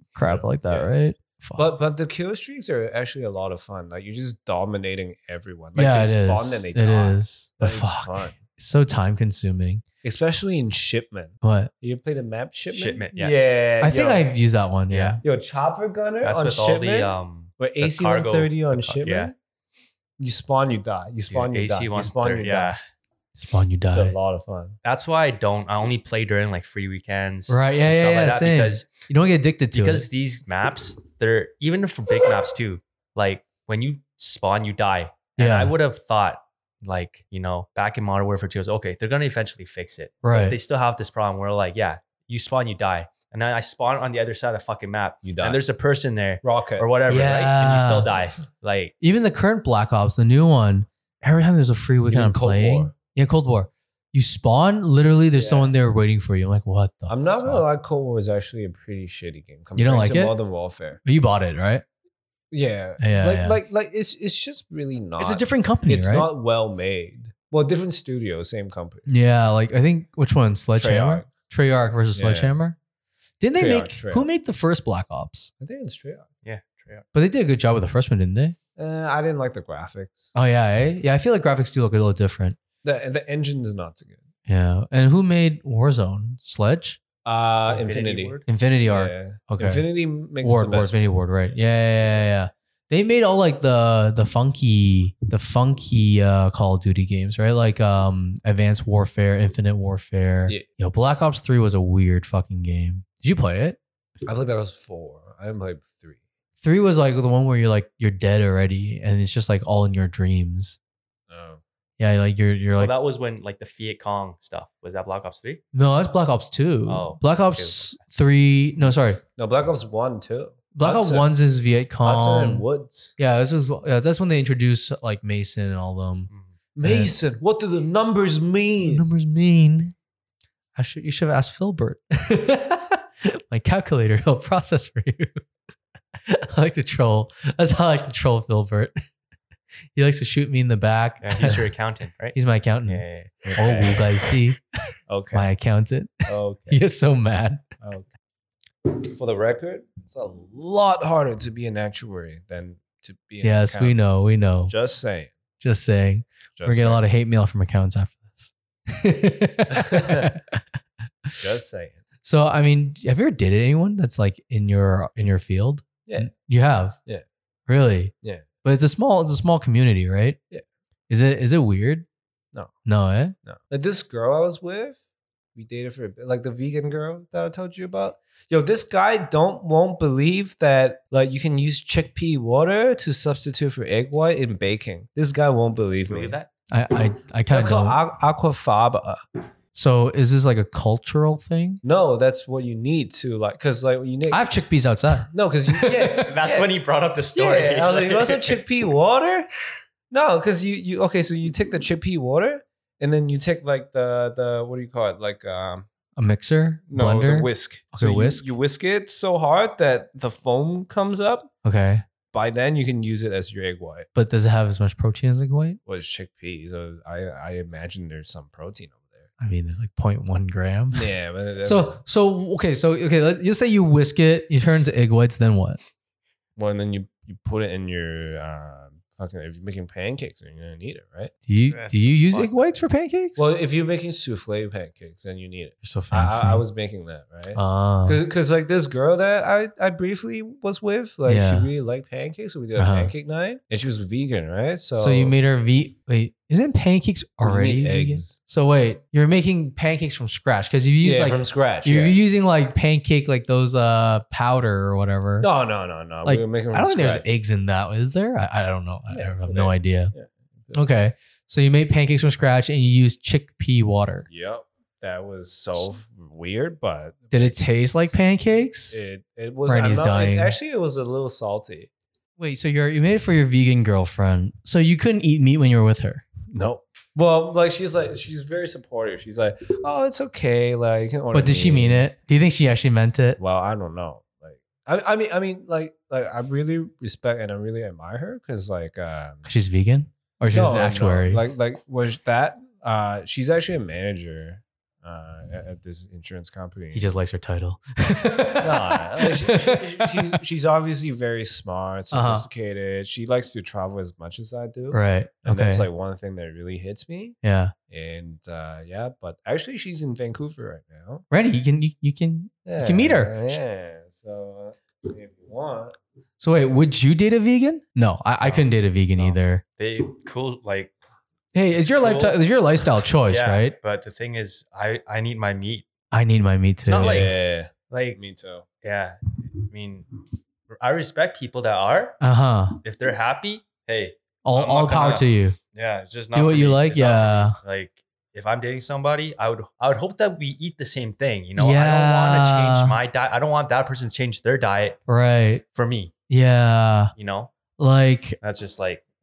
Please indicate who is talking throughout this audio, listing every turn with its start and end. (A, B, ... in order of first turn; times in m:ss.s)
0:00.1-0:01.7 A
0:00.2-0:00.9 B
0:01.6-0:08.4 B
0:05.7-0:09.8 A
0:10.0-0:14.3 B
0:11.4-0:11.7 A
0:12.7-0:13.5 C
0:13.8-0:15.2 A
0:14.9-0:15.2 C
0:15.2-0:19.3 B
0:16.2-0:19.3 C
0:20.2-0:22.7 B
0:21.3-0:22.8 C
0:23.4-0:24.2 A
0:23.9-0:24.8 B
0:24.8-0:28.9 C
0:27.5-0:30.0 A
0:29.7-0:48.9 C
0:35.4-0:35.7 A
0:40.2-0:40.6 A
0:45.2-0:45.6 B
0:46.4-0:46.9 B
0:47.1-0:48.1 A
0:49.0-0:57.6 A
0:52.1-0:52.9 B
0:55.4-0:55.7 B
0:57.1-1:01.0 B
0:59.8-1:00.3 A
1:01.0-1:01.8 A
1:02.5-1:09.0 B
1:03.0-1:03.6 A
1:05.2-1:06.3 A
1:09.1-1:12.8 A
1:10.8-1:11.3 B
1:12.1-1:12.5 B
1:13.4-1:15.5 A
1:13.6-1:14.3 B
1:15.6-1:16.3 B
1:16.4-1:17.0 C
1:17.1-1:18.6 A
1:18.8-1:20.3 B
1:20.3-1:22.6 A
1:22.8-1:24.2 B
1:24.5-1:27.0 A
1:27.2-1:28.4 B
1:27.7-1:28.4 C
1:28.5-1:29.8 A
1:28.9-1:31.0 B
1:30.4-1:43.8 A
1:32.0-1:32.3 B
1:44.2-1:46.2 B
1:46.6-1:50.8 A
1:51.3-1:51.6 B
1:52.0-1:52.9 A
1:52.8-1:55.6 C
1:55.7-1:59.2 A
1:56.9-1:57.7 C
1:59.4-2:01.3 B
2:00.7-2:02.6 A
2:02.0-2:03.1 B
2:03.2-2:06.3 A
2:06.8-2:09.0 B
2:06.8-2:07.1 A
2:08.8-2:09.9 A
2:10.8-2:15.4 A
2:16.3-2:19.0 A
2:19.9-2:21.6 A
2:21.2-2:22.4 C
2:22.3-2:23.0 A
2:22.9-2:24.0 C
2:23.5-2:24.0 B
2:23.6-2:24.6 A
2:25.1-2:25.5 B
2:25.3-2:27.6 A
2:26.3-2:26.8 B
2:27.8-2:28.1 B
2:28.9-2:34.0 B
2:33.4-2:34.7 A
2:34.7-2:35.3 B
2:35.6-2:40.6 A
2:36.6-2:37.0 B
2:39.7-2:40.3 B
2:41.4-2:42.0 B
2:42.2-2:47.0 A
2:47.7-2:48.1 A
2:48.6-2:50.4 A
2:51.1-2:52.0 A
2:52.8-2:53.3 A
2:53.4-2:55.0 B
2:55.5-3:06.4 B
3:06.1-3:06.5 C
3:06.7-3:08.0 A
3:07.5-3:09.2 B
3:09.7-3:11.8 A
3:11.8-3:14.4 B
3:14.3-3:16.3 A
3:15.3-3:16.7 B
3:16.2-3:18.6 C
3:17.3-3:19.5 B
3:20.1-3:25.9 B
3:26.2-3:28.5 A
3:26.9-3:31.5 B
3:31.6-3:32.0 A
3:32.3-3:34.1 B
3:34.1-3:35.8 A
3:35.8-3:39.3 B
3:39.4-3:41.1 A
3:40.9-3:42.0 B
3:41.6-3:45.8 A
3:46.6-3:52.5 B
3:51.5-3:53.5 A
3:53.4-4:05.4 B
3:55.8-3:56.6 A
3:57.5-3:58.2 A
4:01.2-4:01.7 A
4:02.8-4:03.1 A
4:05.0-4:15.5 A
4:07.4-4:08.3 B
4:11.0-4:12.2 B
4:15.4-4:17.2 B
4:16.2-4:20.1 A
4:19.1-4:20.8 B
4:20.7-4:24.3 A
4:24.3-4:27.6 B
4:27.3-4:29.0 A
4:28.9-4:31.9 B
4:29.6-4:30.5 A
4:32.4-4:36.2 A
4:36.5-4:42.1 B
4:41.3-4:43.4 A
4:43.4-4:49.4 B
4:49.4-4:51.4 A
4:50.5-4:57.2 B
4:56.9-5:00.4 A
4:58.6-5:07.4 B
5:02.1-5:02.5 A
5:04.9-5:05.9 A
5:07.4-5:07.7 A
5:07.9-5:11.2 B
5:11.3-5:13.3 A
5:12.6-5:16.0 B
5:16.4-5:19.6 A
5:18.4-5:20.9 C
5:21.5-5:23.8 A
5:21.7-5:22.4 C
5:23.0-5:25.9 C
5:26.1-5:27.3 A
5:26.8-5:27.4 C
5:27.0-5:28.6 B
5:27.9-5:28.2 C
5:28.8-5:30.1 C
5:30.7-5:32.2 C
5:32.2-5:32.8 A
5:32.8-5:45.0 C
5:34.4-5:35.6 A
5:36.3-5:37.6 A
5:41.6-5:43.0 A
5:45.1-5:45.6 A
5:45.7-5:46.1 C
5:46.3-5:47.1 A
5:47.2-5:47.5 C
5:47.8-5:48.4 A
5:48.4-5:49.0 C